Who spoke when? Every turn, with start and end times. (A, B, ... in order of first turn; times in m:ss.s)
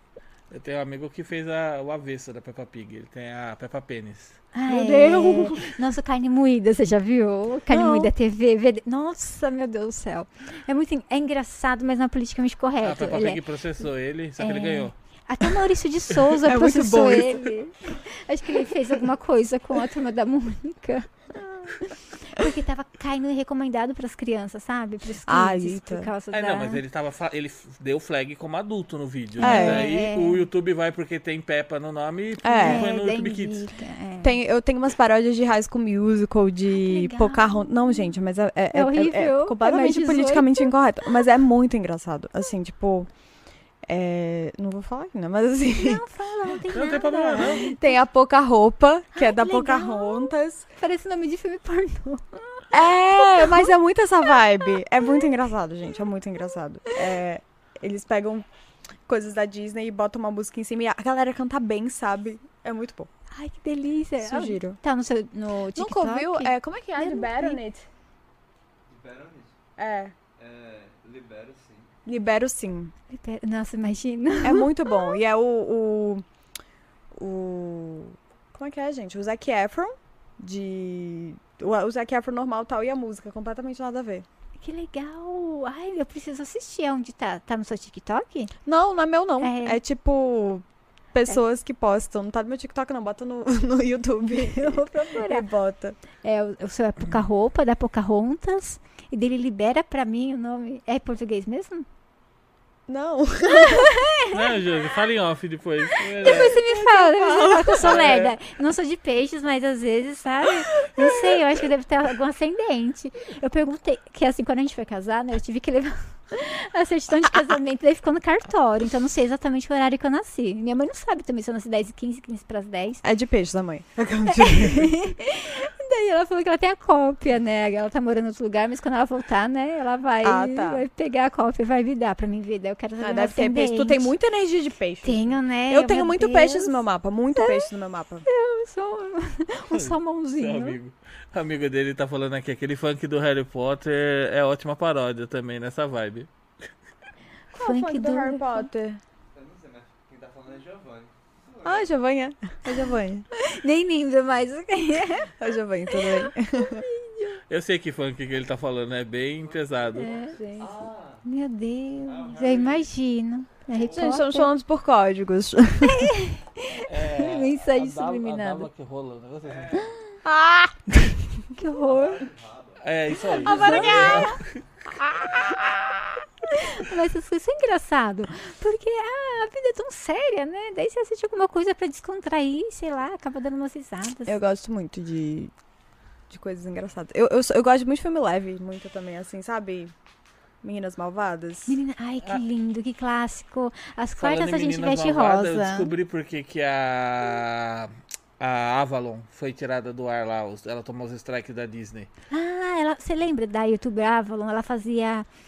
0:00.5-0:04.5 A
0:04.5-0:13.4 B
0:04.7-0:05.8 C
0:07.7-0:08.1 C
0:12.8-0:14.9 A
0:14.4-0:21.1 B
0:16.4-0:17.5 C
0:22.2-0:26.8 B
0:25.3-0:26.1 C
0:26.3-0:33.7 A
0:29.4-0:30.4 B
0:29.4-0:29.9 C
0:32.4-0:32.8 C
0:32.6-0:34.4 B
0:34.2-0:43.1 C
0:36.7-0:38.1 B
0:38.7-0:40.7 B
0:43.8-0:46.0 C
0:45.7-0:47.8 B
0:46.7-0:47.7 A
0:47.4-0:50.7 C
0:49.1-0:53.7 B
0:52.7-0:58.5 C
0:59.1-1:03.1 C
1:03.3-1:07.6 B
1:04.2-1:04.8 C
1:05.8-1:07.9 C
1:08.9-1:09.6 D
1:09.8-1:10.2 C
1:10.4-1:11.9 D
1:12.1-1:12.9 C
1:13.1-1:15.1 B
1:14.4-1:16.2 C
1:17.2-1:24.3 C
1:24.6-1:28.5 B
1:28.7-1:36.0 C
1:29.4-1:29.8 B
1:34.5-1:35.4 B
1:36.2-1:41.9 B
1:42.9-1:43.9 C
1:43.5-1:44.6 B
1:44.3-1:46.6 A
1:45.9-2:03.0 B
1:46.2-1:48.3 C
1:47.8-1:48.3 A
1:50.8-1:51.5 C
2:03.0-2:04.9 C
2:04.3-2:14.1 B
2:10.2-2:10.9 C
2:13.0-2:18.3 C
2:15.0-2:16.8 B
2:17.4-2:17.7 B
2:18.2-2:20.8 B
2:19.7-2:26.3 A
2:27.5-2:28.7 B
2:27.6-2:29.0 C
2:29.3-2:32.0 D
2:31.6-2:33.3 C
2:33.3-2:35.4 B
2:35.4-2:36.8 C
2:35.9-2:37.4 B
2:37.5-2:40.1 A
2:39.4-2:41.2 D
2:40.0-2:40.4 B
2:40.2-2:40.9 C
2:41.2-2:44.5 B
2:42.0-2:42.9 D
2:43.7-2:44.1 D
2:43.9-2:46.1 C
2:45.8-2:48.7 B
2:46.9-2:49.8 A
2:49.4-2:50.0 D
2:50.2-2:50.8 C
2:51.6-2:52.2 B
2:51.7-2:54.0 D
2:52.8-2:54.5 A
2:53.3-2:54.4 B
2:53.4-2:54.4 C
2:56.4-3:04.4 B
3:04.3-3:05.5 C
3:06.3-3:09.9 C
3:10.6-3:11.8 C
3:11.7-3:15.9 B
3:14.2-3:22.1 A
3:22.3-3:25.3 B